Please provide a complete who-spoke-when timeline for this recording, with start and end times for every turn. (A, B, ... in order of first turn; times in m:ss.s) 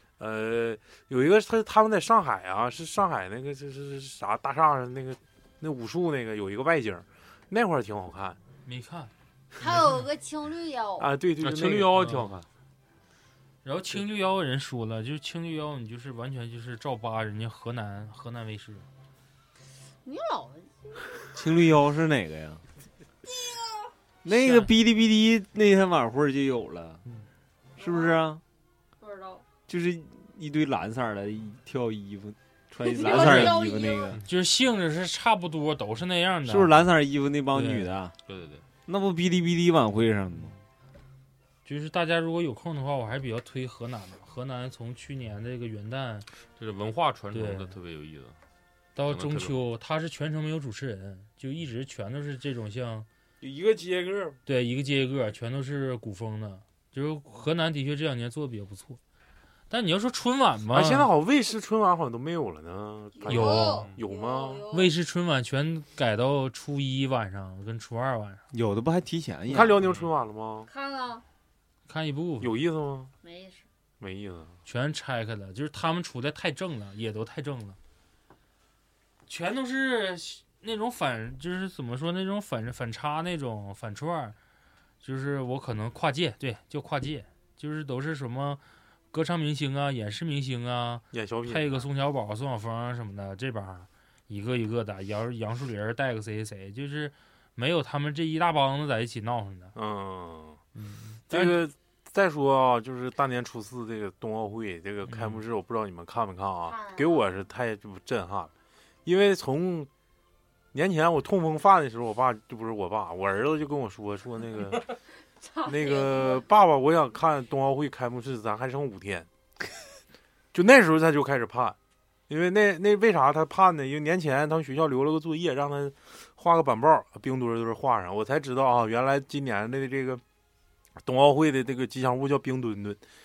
0:00.2-0:08.4 A
0:08.6-0:09.1 B
0:09.6-0:11.1 C
0:11.0-0:12.4 A
0:11.4-0:12.4 D
0:12.0-0:12.2 B
0:13.6-0:18.8 B
0:20.0-0:21.1 C
0:21.3-0:22.6 E
0:23.5-0:23.8 C
0:24.2-0:27.0 E
0:24.3-0:24.7 B
0:27.8-0:28.4 E
0:27.8-0:28.2 C
0:29.0-0:29.4 C
0:29.7-0:34.2 E
0:32.8-0:34.2 C
0:33.2-0:33.5 B
0:34.2-0:36.9 B
0:36.4-0:38.2 E
0:37.5-0:37.9 B
0:38.3-0:38.6 D
0:38.9-0:40.5 E
0:41.6-0:46.3 B
0:46.6-0:48.4 D
0:47.3-0:47.8 B
0:49.0-0:53.1 B
0:49.0-0:49.6 D
0:53.4-0:54.4 A
0:54.5-0:59.0 B
0:59.7-1:01.1 B
1:00.7-1:04.7 A
1:03.2-1:04.9 C
1:03.3-1:03.9 B
1:04.7-1:08.4 B
1:08.5-1:09.8 E
1:09.5-1:10.7 A
1:09.8-1:10.1 D
1:10.7-1:11.2 C
1:11.9-1:12.5 B
1:12.4-1:13.1 A
1:13.2-1:13.6 C
1:14.0-1:14.6 A
1:14.7-1:17.8 B
1:19.3-1:24.4 B
1:25.0-1:28.6 B
1:29.1-1:39.7 B
1:31.1-1:31.9 A
1:39.8-1:40.6 A
1:40.8-1:41.6 B
1:41.3-1:48.5 A
1:45.1-1:45.4 B
1:46.7-1:47.2 C
1:49.1-1:49.9 A
1:50.7-1:54.9 A
1:55.4-1:56.4 C
1:55.7-1:59.3 A
2:00.5-2:01.8 A
2:02.3-2:10.2 A
2:11.0-2:13.0 A